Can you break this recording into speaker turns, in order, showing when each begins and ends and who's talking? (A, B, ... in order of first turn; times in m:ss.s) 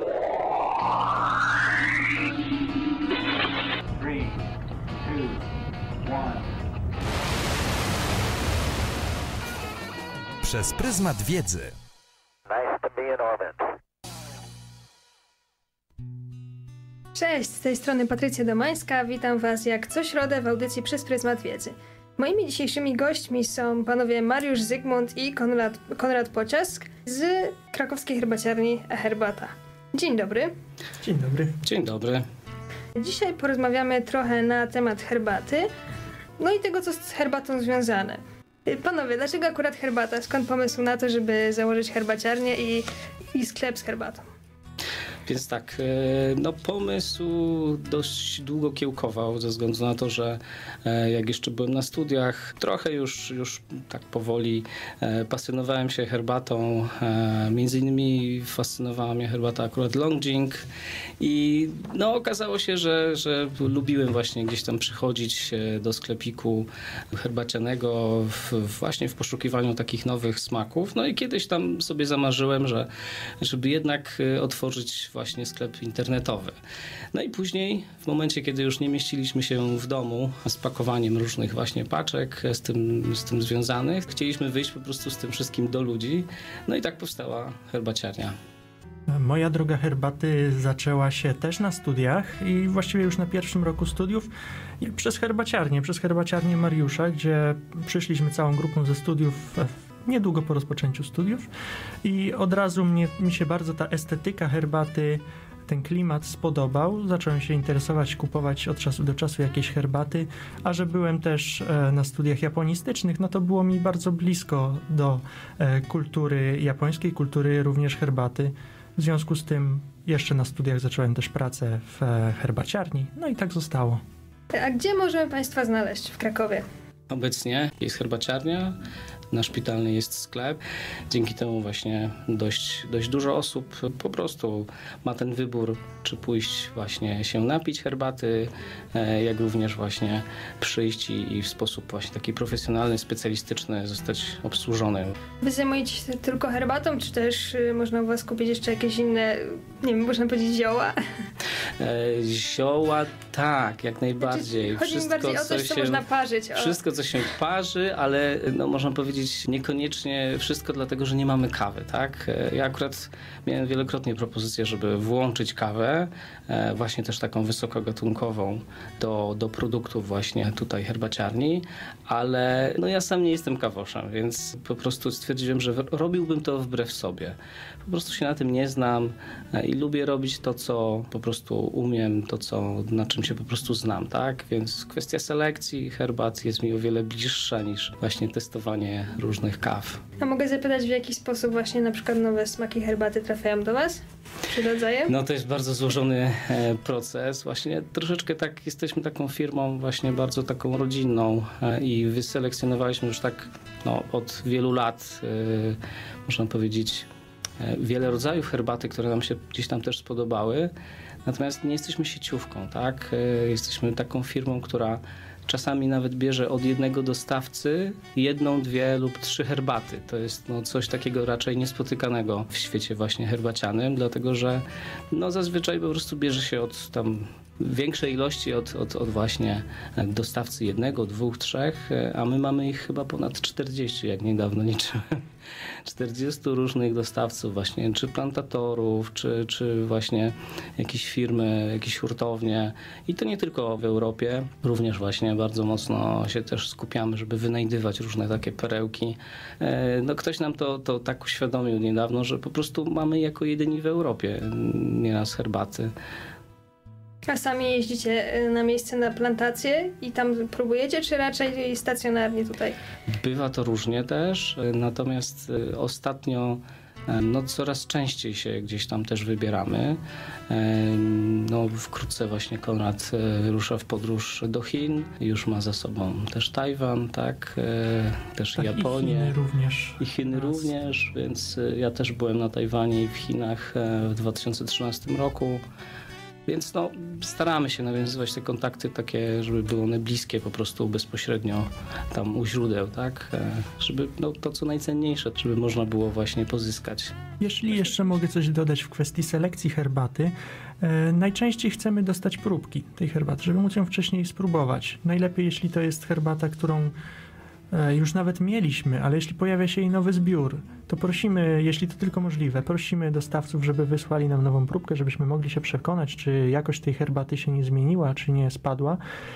0:10.4-0:11.8 A
0:12.5-0:13.6 A
0:17.1-0:30.5 B
0:31.0-0:31.6 C
0:31.6-0:32.2 D
0:33.0-0:35.7 B
0:36.4-0:44.2 B
0:45.2-1:00.6 D
1:01.2-1:12.9 D
1:13.4-1:16.5 D
1:17.1-1:28.3 D
1:29.1-1:34.3 C
1:34.8-1:41.5 C
1:42.0-2:04.0 C
2:04.5-2:06.6 B
2:07.1-2:08.8 D
2:09.3-2:25.2 D
2:25.4-2:31.0 B
2:31.8-3:10.0 D
2:34.2-2:36.8 B
3:10.2-3:15.1 B
3:15.1-3:27.1 D
3:27.6-3:30.7 D
3:31.2-3:55.2 D
3:55.8-4:15.9 D
4:17.2-4:22.8 B
4:23.1-4:30.0 D
4:30.5-4:39.3 D
4:38.6-4:40.6 C
4:40.0-4:45.6 D
4:46.4-4:57.1 D
4:57.4-5:06.9 C
5:07.7-5:19.0 C